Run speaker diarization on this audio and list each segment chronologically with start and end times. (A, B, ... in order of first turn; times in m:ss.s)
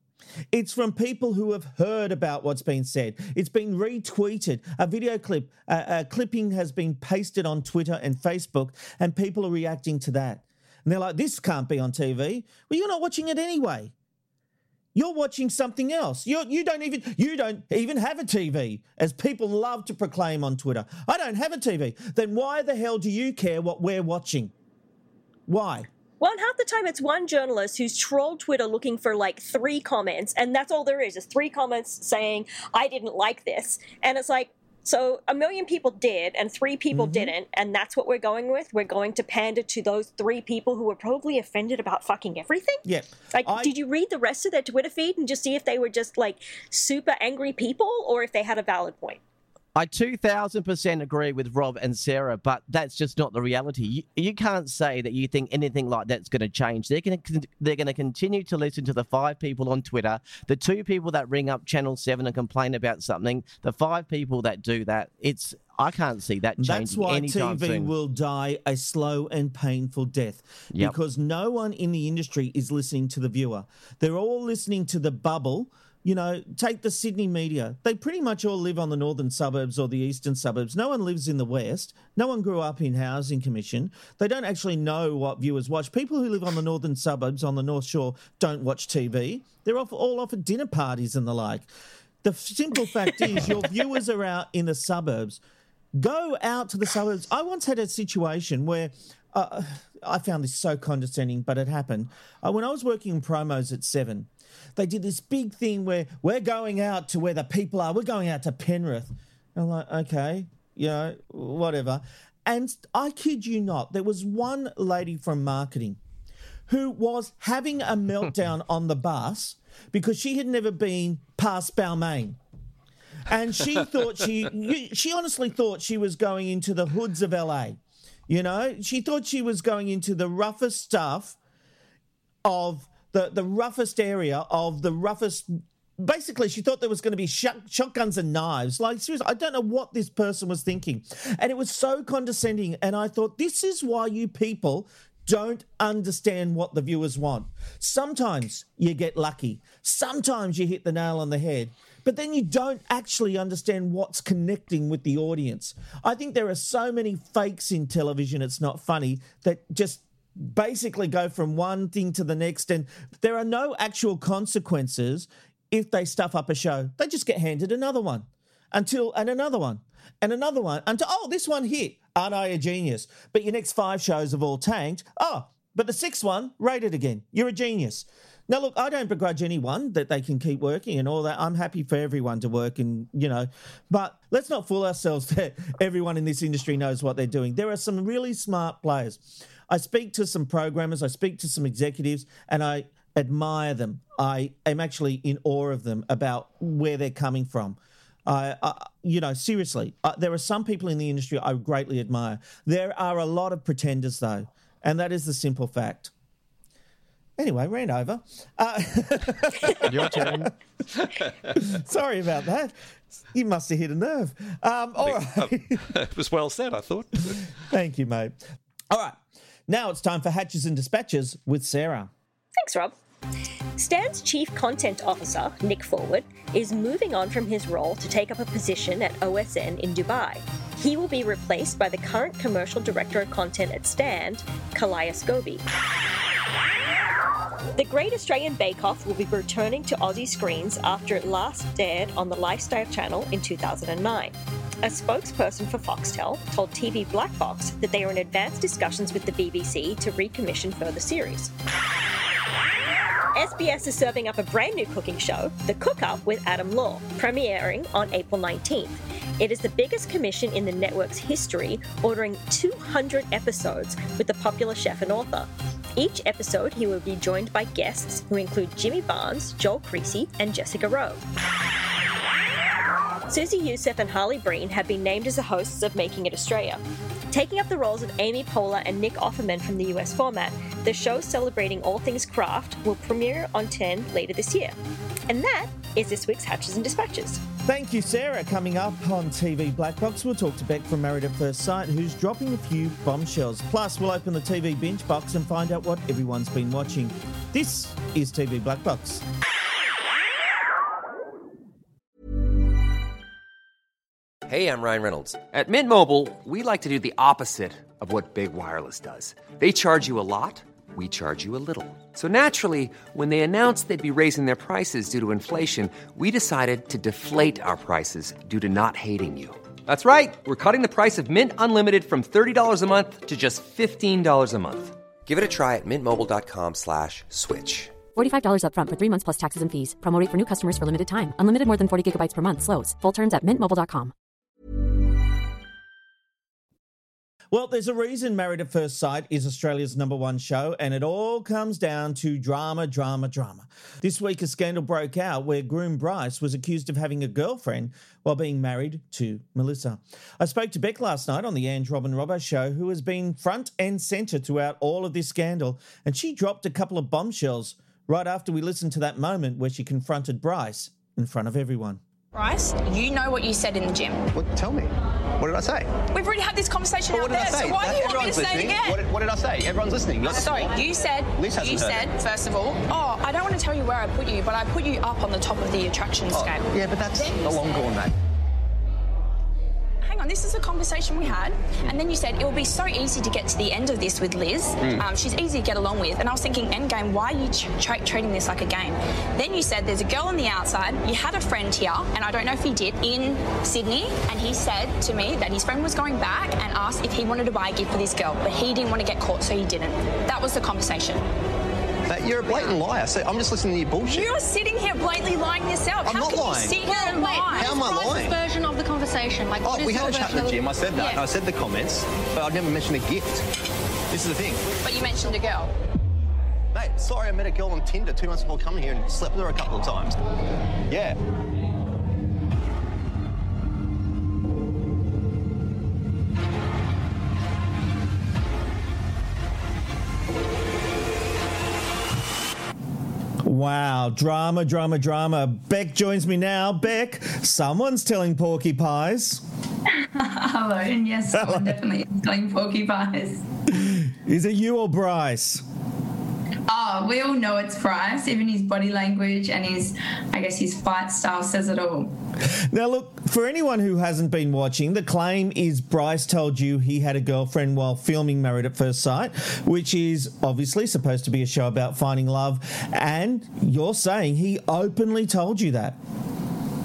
0:00.5-0:13.9 A
0:14.9-0:24.5 A
0:25.5-0:25.9 A
0:26.2-0:49.2 B
0:36.9-0:37.3 A
0:42.8-0:43.7 A
0:49.8-1:07.9 C
1:06.6-1:31.7 A
1:32.2-1:35.4 A
1:36.0-1:56.0 A
1:56.7-2:02.4 A
2:03.3-2:11.4 A
2:12.4-3:26.1 A
3:27.4-3:30.5 A
3:31.0-3:31.3 D
3:31.5-3:32.8 A
3:33.3-3:35.8 A
3:35.0-3:37.5 D
3:37.6-3:38.4 A
3:38.9-3:42.1 A
3:42.6-3:43.0 B
3:43.8-3:55.6 B
3:57.8-4:11.5 B
4:13.3-4:31.2 B
4:33.3-4:44.8 B
4:45.3-4:47.4 B
4:47.6-4:59.2 A
5:04.5-5:28.1 E
5:28.1-5:34.1 F
5:37.5-6:02.0 A
6:02.3-6:04.3 G
6:04.3-6:05.9 H
6:06.1-6:09.0 G
6:07.1-6:10.8 H
6:10.2-6:17.7 G
6:11.4-6:12.1 H
6:16.3-6:18.2 H
6:20.0-6:41.2 G
6:24.8-6:25.1 H
6:42.1-6:44.3 H
6:44.1-6:47.8 G
6:46.0-6:48.4 H
6:46.8-6:51.1 I
6:49.6-6:53.4 H
6:54.1-6:54.7 H
6:54.8-6:55.7 G
6:56.7-7:00.2 H
7:00.9-7:01.2 H
7:13.4-7:19.4 A
7:20.0-7:23.4 J
7:21.3-7:21.8 A
7:23.7-7:25.6 A
7:26.7-7:32.2 J
7:32.5-7:46.0 A